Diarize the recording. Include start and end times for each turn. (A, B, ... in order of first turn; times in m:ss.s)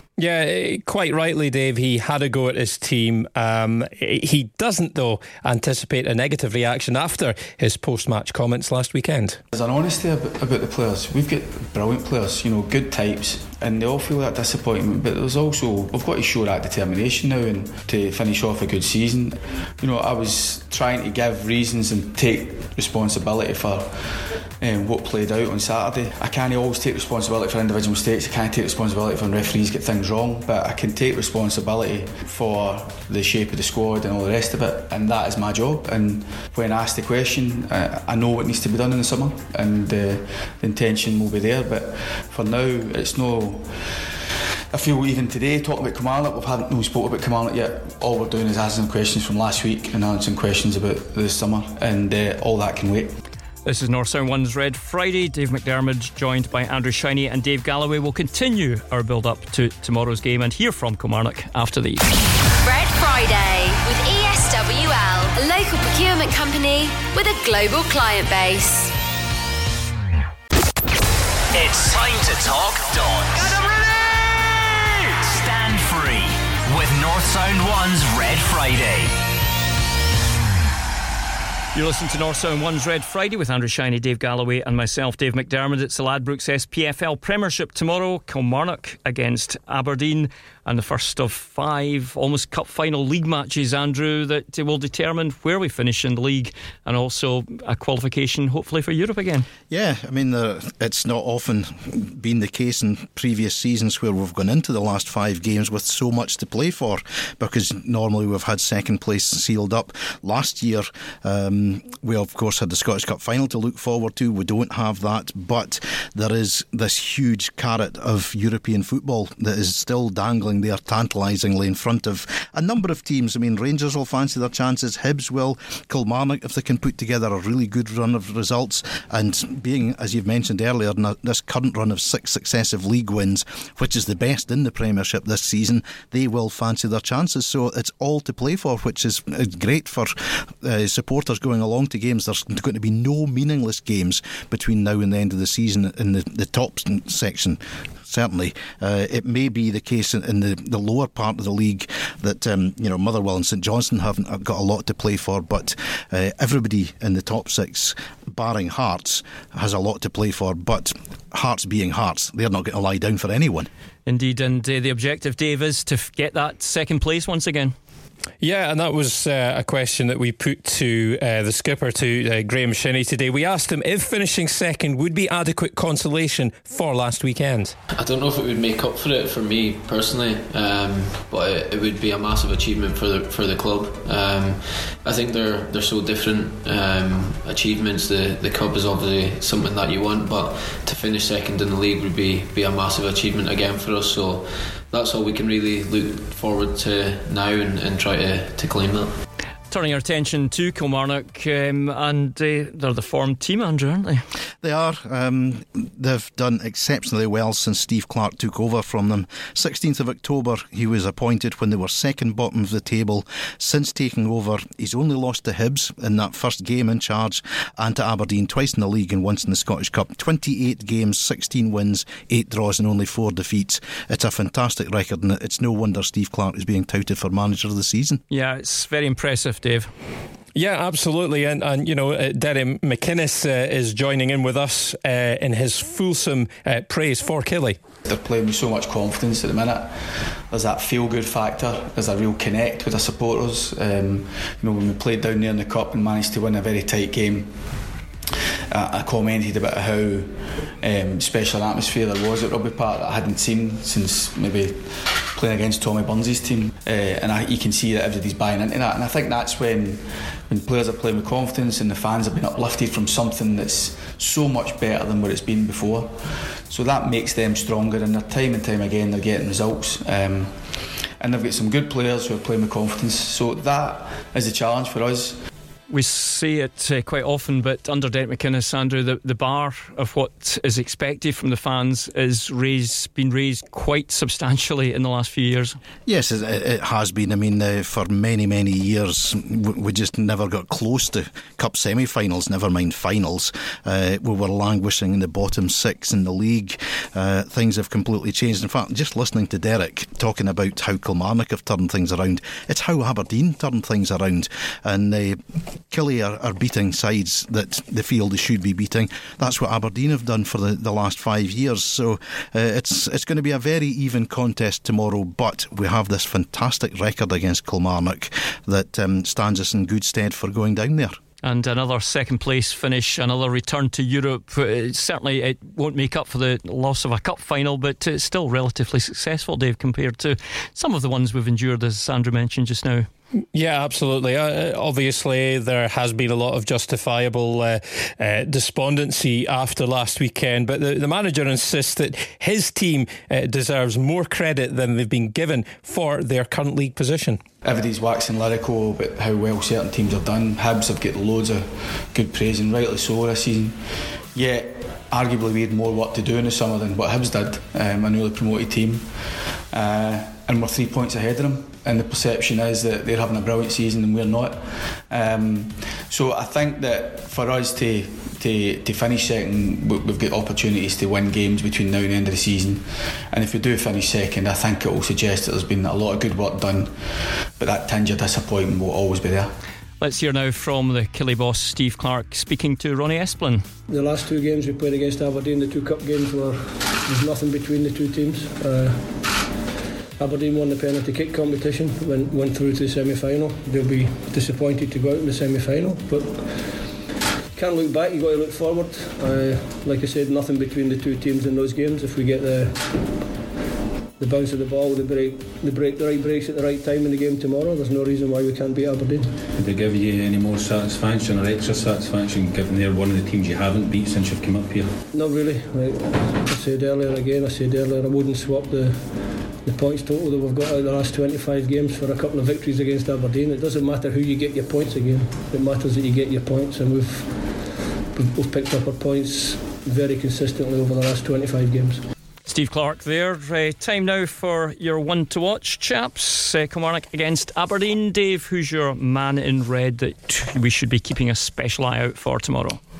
0:00.2-0:09.4 A
0:09.5-0:44.0 B
0:44.7-0:53.1 B
0:53.6-1:02.0 C
1:02.6-1:08.9 D
1:11.5-1:13.8 E
1:15.1-1:19.2 E
1:21.7-1:39.5 C
1:39.7-2:43.7 F
2:44.0-2:47.7 C
2:48.4-2:57.7 A
2:57.9-3:19.1 G
3:19.7-3:24.2 C
3:24.6-3:48.2 F
3:48.3-3:49.9 C
3:50.5-3:57.8 A
3:58.0-4:07.6 B
4:08.7-4:35.4 B
4:35.9-4:45.8 C
4:46.0-5:21.2 F
5:21.4-5:33.1 C
5:33.5-5:47.4 A
5:47.6-5:53.8 B
5:54.3-6:19.5 B
6:20.0-6:23.6 C
6:23.9-6:29.4 H
6:30.2-6:36.9 H
6:37.5-6:43.1 H
6:44.2-6:49.3 H
6:49.6-6:55.0 I
6:55.1-7:07.6 H
7:08.1-7:12.0 H
7:12.5-7:22.8 C